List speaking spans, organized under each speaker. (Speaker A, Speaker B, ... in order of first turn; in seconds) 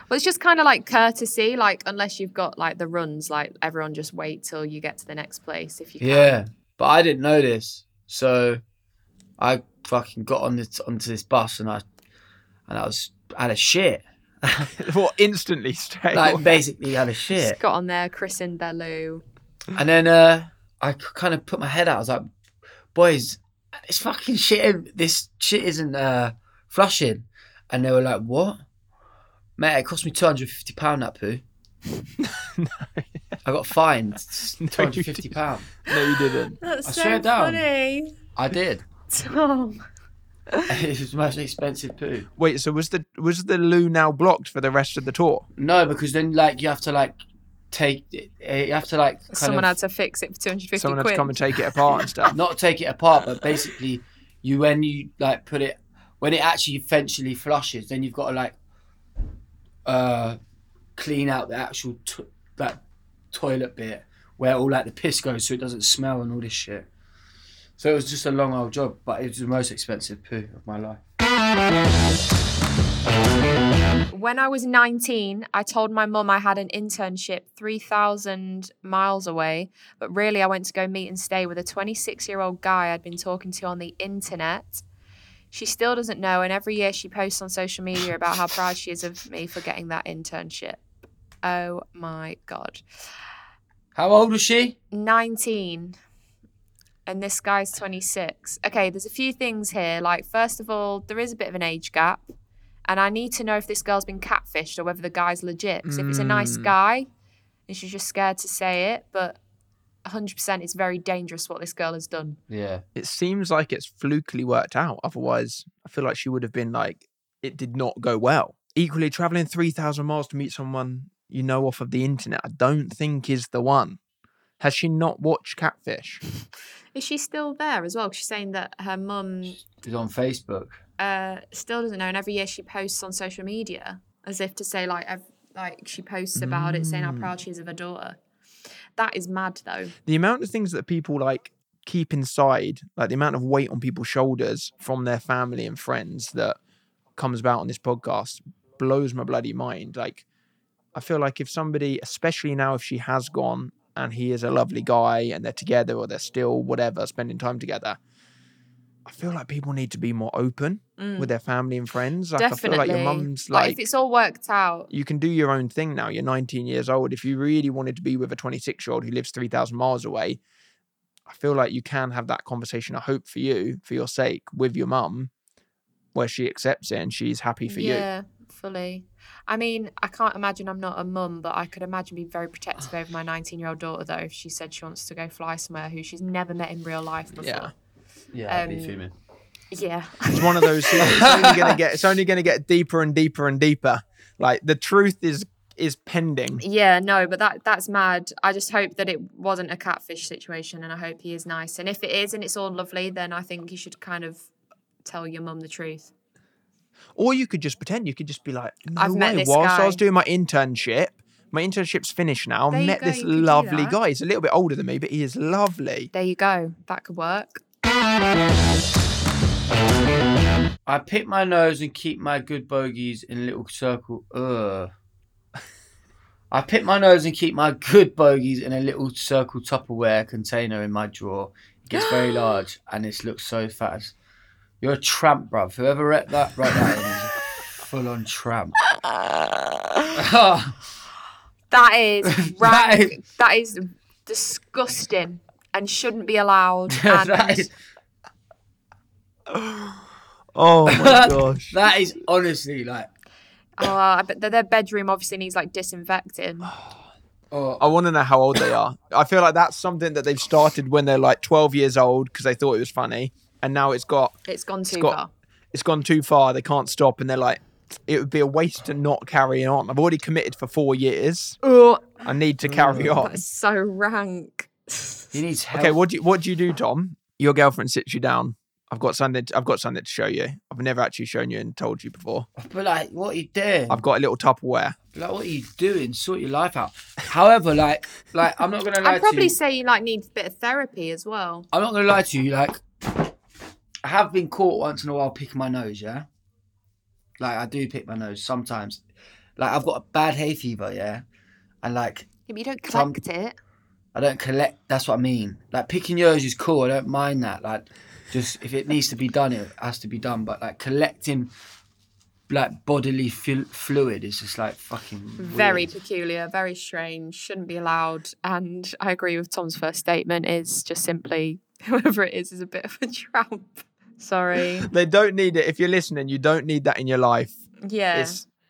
Speaker A: 0.1-6.4, 17.3-19.2, 36.6-38.1, 39.1-39.8, 49.3-51.4, 74.1-84.8, 85.5-90.8, 91.4-92.8, 94.9-96.0, 97.1-102.3, 102.9-107.1, 107.7-109.4, 110.0-112.4, 126.9-129.6, 131.0-138.2, 139.0-139.9, 161.0-161.3, 162.4-164.9, 177.7-187.7, 188.5-189.0, 189.7-191.1, 196.6-204.5, 205.1-206.1, 209.0-210.0, 212.7-214.0, 216.1-217.6, 238.9-240.2, 241.7-247.7, 253.8-256.7, 264.5-265.3, 271.6-272.2, 273.1-275.4, 289.0-291.7, 302.5-303.6, 315.4-324.9, 327.8-328.4
Speaker B: 6.0-8.6, 9.4-11.8, 12.7-14.7, 16.1-17.6, 19.8-22.3, 22.9-28.6, 29.6-31.4, 33.5-35.7, 36.8-37.6, 38.4-38.8, 40.7-42.3, 45.6-47.2, 47.7-49.7, 52.3-58.6, 59.9-60.4, 61.0-66.9, 67.8-71.0, 94.0-94.8, 112.5-112.8, 129.6-130.8, 188.3-189.1, 191.0-191.8, 220.9-224.9, 226.5-234.1, 234.8-238.8, 240.2-240.8, 242.2-243.2, 246.9-247.7, 250.9-253.1, 257.5-257.8, 272.6-273.2, 275.3-276.0, 282.6-284.0, 285.1-289.6, 291.7-292.8, 294.0-296.3, 297.4-299.0, 299.6-301.2, 301.8-302.3, 302.9-303.2, 304.1-311.5, 312.5-315.9
Speaker C: 14.8-16.6, 32.2-33.2, 34.6-36.6, 42.4-45.5, 50.8-52.4, 105.8-106.7, 113.0-124.0, 124.6-126.2, 136.3-137.3, 140.1-146.6, 147.2-150.2, 150.9-158.0, 159.1-163.8, 164.9-170.4, 171.3-175.3, 176.2-178.1, 187.4-187.7, 190.3-196.6, 207.2-216.1, 249.5-250.0, 250.6-251.8, 257.8-265.2, 265.7-271.6, 272.2-273.4, 275.8-282.5, 283.9-285.0, 324.8-327.5, 328.1-328.4